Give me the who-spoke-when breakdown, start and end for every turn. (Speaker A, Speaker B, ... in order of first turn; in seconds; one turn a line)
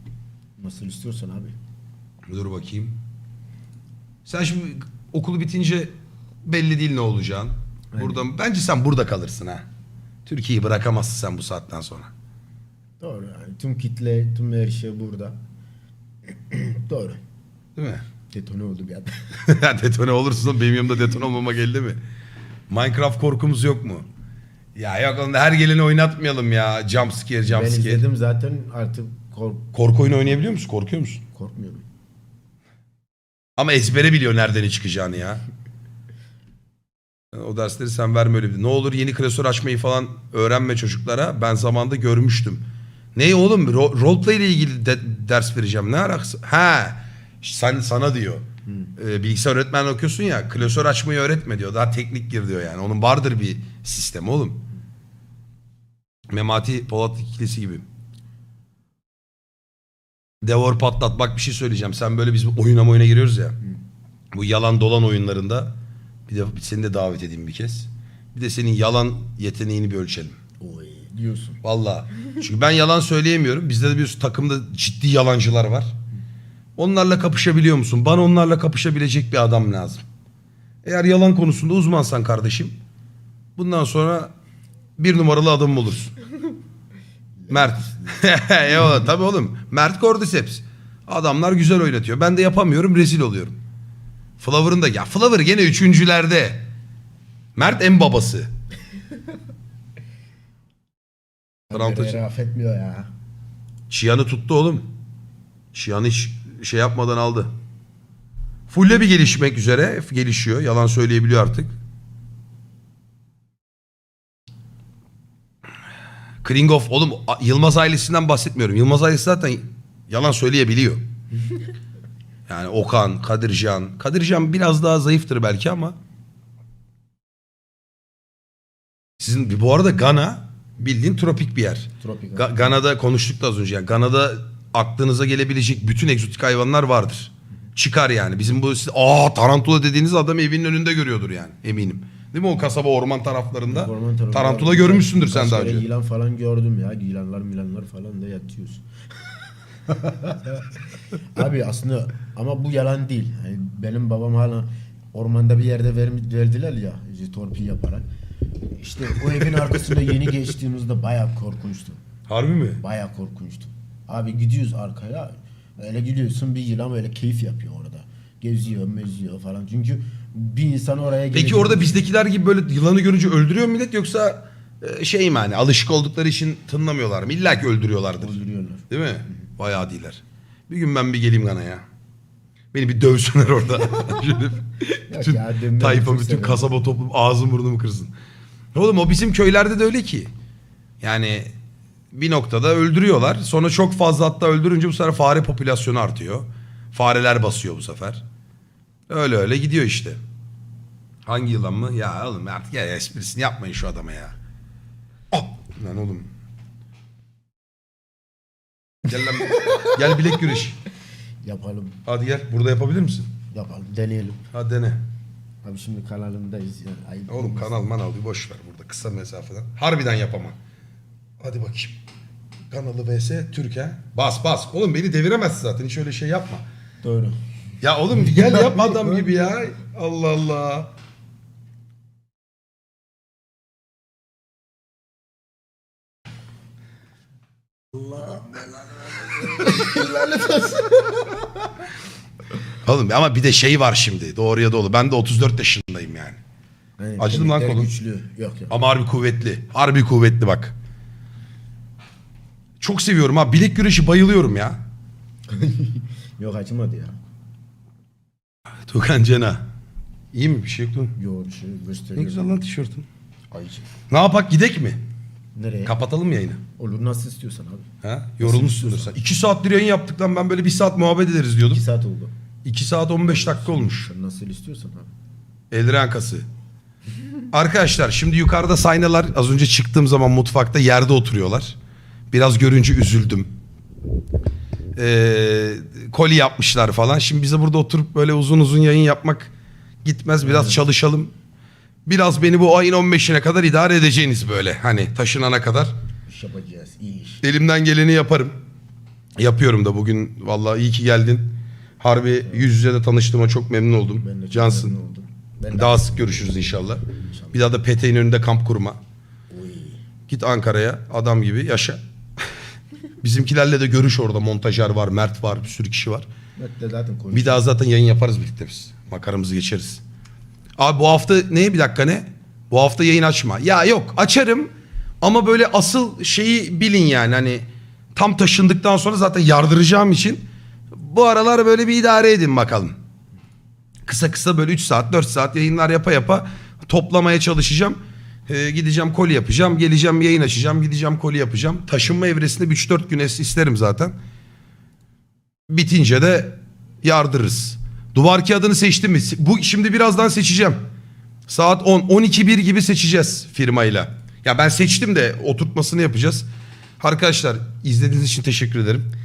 Speaker A: 0.6-1.5
Speaker B: 2.3-3.0
Speaker B: 4.2-5.9
Speaker B: 6.4-9.7
Speaker A: 7.9-8.2
Speaker B: 10.2-12.1
Speaker A: 13.0-15.4
Speaker A: 16.5-17.2
Speaker B: 17.8-18.0
Speaker A: 18.3-19.1
Speaker B: 19.4-22.0
Speaker B: 22.7-24.1
Speaker B: 24.8-28.0
Speaker A: 27.5-29.7
Speaker B: 29.7-31.2
Speaker A: 31.3-31.8
Speaker B: 33.6-35.4
Speaker B: 37.3-42.6
Speaker B: 43.1-54.6
Speaker B: 56.3-57.8
Speaker B: 60.4-63.6
Speaker B: 64.3-65.7
Speaker B: 66.3-70.4
Speaker A: 70.6-71.6
Speaker B: 71.6-75.9
Speaker B: 76.8-80.0
Speaker B: 80.8-82.8
Speaker B: 83.6-84.3
Speaker B: 85.0-86.2
Speaker A: 87.5-88.2
Speaker B: 87.5-93.6
Speaker B: 94.4-96.6
Speaker B: 97.5-98.5
Speaker A: 101.7-103.1
Speaker B: 101.7-102.2
Speaker B: 103.9-104.9
Speaker B: 105.7-107.5
Speaker B: 108.7-111.7
Speaker B: 116.4-121.0
Speaker B: 122.5-126.0
Speaker B: 129.2-145.9
Speaker A: 132.0-132.8
Speaker A: 143.7-148.8
Speaker A: 149.9-150.7
Speaker A: 151.3-158.1
Speaker A: 158.8-162.0
Speaker B: 162.3-162.8
Speaker A: 162.8-172.1
Speaker B: 171.3-178.4
Speaker A: 178.2-178.9
Speaker B: 178.9-181.8
Speaker B: 182.7-188.1
Speaker A: 185.1-187.0
Speaker B: 188.7-190.3
Speaker B: 191.0-191.5
Speaker B: 192.1-198.2
Speaker B: 199.1-200.2
Speaker B: 201.2-204.3
Speaker B: 205.3-206.3
Speaker B: 209.0-210.8
Speaker A: 211.4-212.0
Speaker B: 212.1-213.3
Speaker A: 213.5-214.4
Speaker B: 214.5-215.0
Speaker A: 215.6-217.9
Speaker B: 217.3-220.6
Speaker B: 221.4-222.0
Speaker B: 222.7-226.7
Speaker A: 227.0-227.3
Speaker B: 227.8-230.9
Speaker A: 228.1-229.5
Speaker A: 237.9-241.7
Speaker B: 242.8-246.4
Speaker A: 247.0-248.8
Speaker B: 247.2-247.9
Speaker B: 248.7-250.7
Speaker B: 252.8-254.8
Speaker A: 255.5-257.2
Speaker B: 258.9-259.7
Speaker B: 260.3-261.1
Speaker A: 261.2-262.6
Speaker B: 262.1-263.1
Speaker A: 263.5-263.9
Speaker B: 264.1-265.0
Speaker A: 265.6-265.9
Speaker B: 265.9-266.6
Speaker A: 266.8-267.9
Speaker B: 268.0-271.8
Speaker A: 268.4-269.2
Speaker A: 271.7-272.3
Speaker B: 272.6-274.1
Speaker A: 273.2-275.1
Speaker B: 275.7-276.4
Speaker B: 277.5-281.8
Speaker B: 282.3-283.5
Speaker B: 284.9-289.5
Speaker B: 290.0-291.3
Speaker A: 290.4-290.8
Speaker B: 292.1-295.9
Speaker A: 296.2-297.4
Speaker B: 297.4-298.6
Speaker B: 299.4-304.9
Speaker A: 304.2-307.7
Speaker B: 305.7-309.0
Speaker A: 309.5-310.0
Speaker B: 310.3-312.0
Speaker B: 313.2-316.3
Speaker A: 316.6-317.7
Speaker B: 317.3-320.0
Speaker B: 320.8-332.9
Speaker B: 334.1-344.1
Speaker B: 345.7-350.8
Speaker B: 351.5-356.4
Speaker B: 357.0-359.1